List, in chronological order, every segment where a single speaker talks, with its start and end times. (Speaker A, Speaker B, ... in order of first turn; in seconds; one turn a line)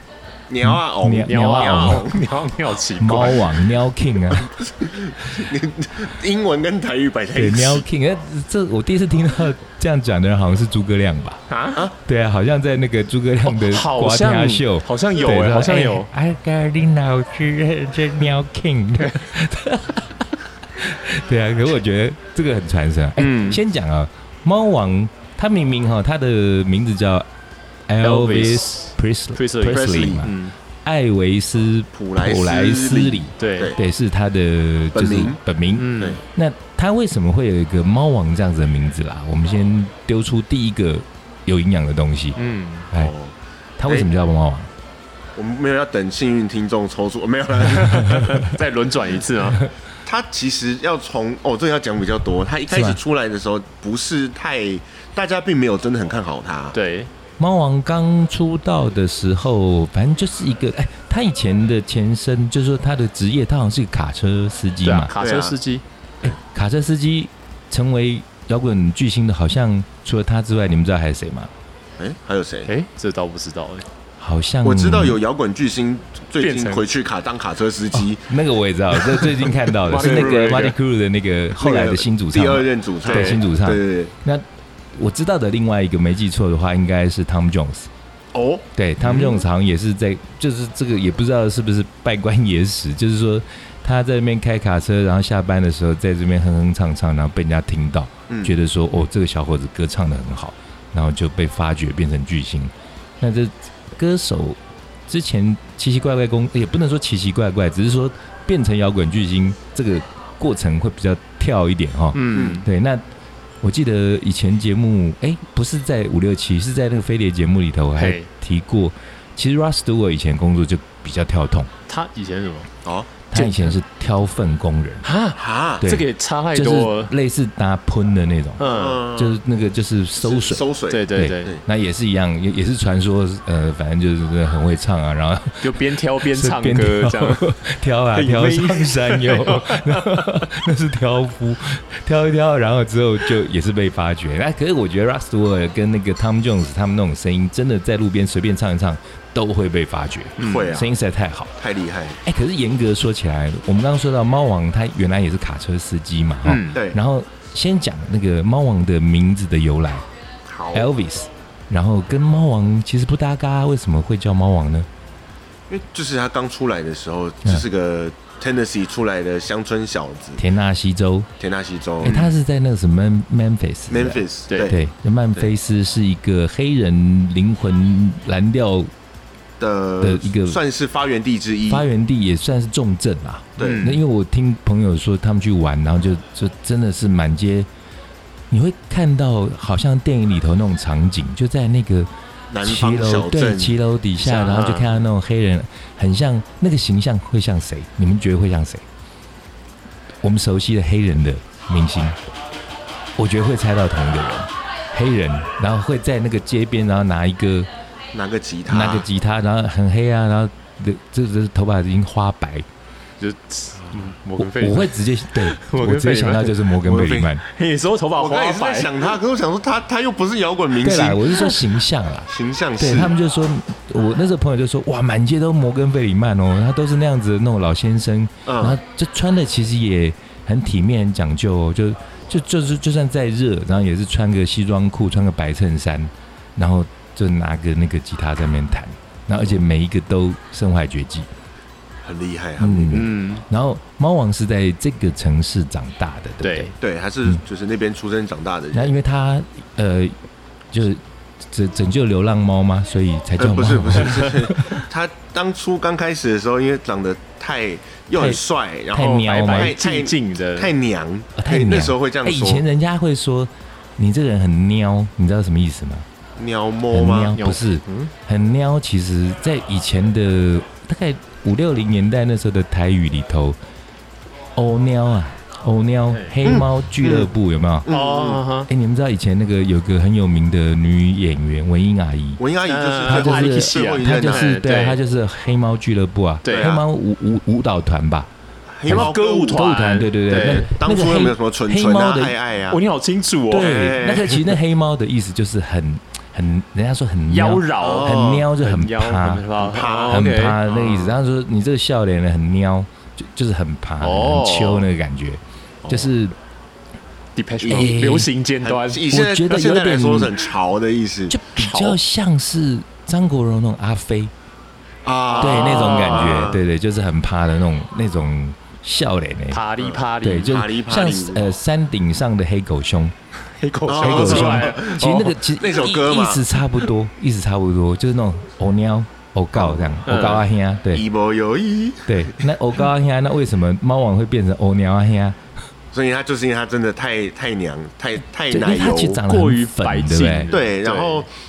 Speaker A: 0.5-2.2
Speaker B: 0.6-2.2
Speaker C: 1.2-3.5
Speaker B: 3.0-4.5
Speaker A: 4.3-7.8
Speaker B: 7.3-11.4
Speaker C: 11.5-11.9
Speaker B: 11.9-20.1
Speaker C: 13.4-16.1
Speaker B: 20.7-27.3
Speaker C: 23.2-23.6
Speaker B: 27.9-42.4
Speaker C: 28.0-30.5
Speaker A: 29.7-30.3
Speaker A: 31.9-33.8
Speaker C: 33.4-33.7
Speaker A: 34.9-35.4
Speaker C: 35.8-36.2
Speaker C: 42.4-42.9
Speaker A: 42.9-43.3
Speaker B: 43.8-44.7
Speaker A: 45.4-48.4
Speaker C: 47.7-49.6
Speaker B: 48.0-48.4
Speaker A: 50.0-56.7
Speaker B: 52.7-53.0
Speaker C: 56.7-57.1
Speaker B: 57.4-65.1
Speaker C: 64.8-65.8
Speaker A: 65.2-65.5
Speaker B: 66.2-71.5
Speaker A: 72.0-72.7
Speaker C: 72.7-73.8
Speaker B: 74.2-75.2
Speaker A: 74.6-78.3
Speaker C: 76.4-76.9
Speaker B: 78.0-87.9
Speaker A: 79.4-80.7
Speaker C: 79.8-80.7
Speaker A: 81.5-84.1
Speaker C: 83.0-83.4
Speaker A: 88.3-89.4
Speaker B: 88.8-113.0
Speaker A: 98.3-98.6
Speaker C: 112.1-112.6
Speaker B: 113.6-121.7
Speaker C: 118.0-118.3
Speaker C: 121.9-122.7
Speaker A: 122.8-123.3
Speaker B: 123.3-125.0
Speaker C: 123.3-123.7
Speaker C: 125.0-127.1
Speaker A: 125.4-125.9
Speaker B: 125.8-128.6
Speaker C: 128.6-129.0
Speaker A: 128.6-129.4
Speaker B: 129.1-135.7
Speaker A: 130.2-131.6
Speaker C: 130.9-131.6
Speaker C: 135.6-137.4
Speaker B: 136.2-151.5
Speaker C: 138.1-140.3
Speaker A: 150.4-150.9
Speaker A: 151.6-152.2
Speaker B: 152.2-160.0
Speaker C: 156.4-156.8
Speaker A: 156.7-157.0
Speaker A: 160.5-160.9
Speaker B: 160.7-164.9
Speaker A: 165.7-170.4
Speaker B: 170.4-171.3
Speaker A: 171.4-172.3
Speaker B: 172.0-178.9
Speaker A: 173.9-174.8
Speaker C: 174.5-174.7
Speaker A: 179.6-181.8
Speaker B: 180.0-180.6
Speaker B: 181.7-187.7
Speaker A: 183.6-183.9
Speaker C: 183.6-184.0
Speaker B: 188.5-192.1
Speaker A: 192.5-193.8
Speaker B: 192.6-198.8
Speaker C: 194.2-195.0
Speaker B: 200.2-202.2
Speaker B: 203.2-207.7
Speaker A: 208.1-209.1
Speaker B: 208.7-212.7
Speaker C: 213.2-216.6
Speaker B: 214.4-217.4
Speaker A: 216.8-217.3
Speaker C: 217.4-219.0
Speaker A: 218.2-221.7
Speaker B: 220.8-241.3
Speaker A: 222.3-223.1
Speaker A: 228.4-228.8
Speaker A: 242.0-243.1
Speaker B: 242.6-246.7
Speaker C: 242.9-243.4
Speaker C: 246.4-246.7
Speaker A: 246.8-248.9
Speaker B: 248.7-250.2
Speaker B: 250.7-254.8
Speaker A: 253.4-262.6
Speaker B: 258.1-258.4
Speaker B: 258.9-259.8
Speaker C: 258.9-260.7
Speaker B: 261.4-266.1
Speaker A: 266.4-267.4
Speaker B: 266.9-273.6
Speaker C: 267.3-268.1
Speaker B: 274.6-277.9
Speaker A: 276.4-277.3
Speaker A: 277.8-278.4
Speaker C: 277.9-278.7
Speaker B: 278.7-282.4
Speaker A: 282.4-284.6
Speaker C: 282.6-285.0
Speaker B: 283.1-288.3
Speaker C: 286.4-286.8
Speaker A: 286.5-286.8
Speaker A: 288.8-289.6
Speaker B: 288.9-292.4
Speaker C: 288.9-290.7
Speaker A: 290.3-292.8
Speaker C: 292.7-293.9
Speaker B: 293.5-299.5
Speaker A: 293.6-294.5
Speaker C: 297.3-301.1
Speaker A: 297.8-298.5
Speaker A: 299.6-300.2
Speaker B: 300.1-306.4
Speaker C: 304.0-304.9
Speaker A: 305.8-306.1
Speaker C: 307.4-309.1
Speaker A: 307.6-308.0
Speaker B: 307.7-308.3
Speaker A: 308.6-311.9
Speaker B: 309.1-310.4
Speaker B: 311.3-314.3
Speaker A: 315.0-316.6
Speaker C: 315.3-316.5
Speaker B: 315.4-319.7
Speaker C: 319.5-320.6
Speaker A: 319.8-321.5
Speaker B: 320.2-323.1
Speaker C: 323.6-325.3
Speaker A: 323.9-326.5
Speaker B: 324.0-331.0
Speaker A: 329.6-330.0
Speaker C: 330.1-330.4
Speaker A: 330.9-332.5
Speaker B: 332.1-335.4
Speaker A: 335.9-339.2
Speaker B: 338.5-340.5
Speaker C: 339.2-341.2
Speaker A: 340.5-341.3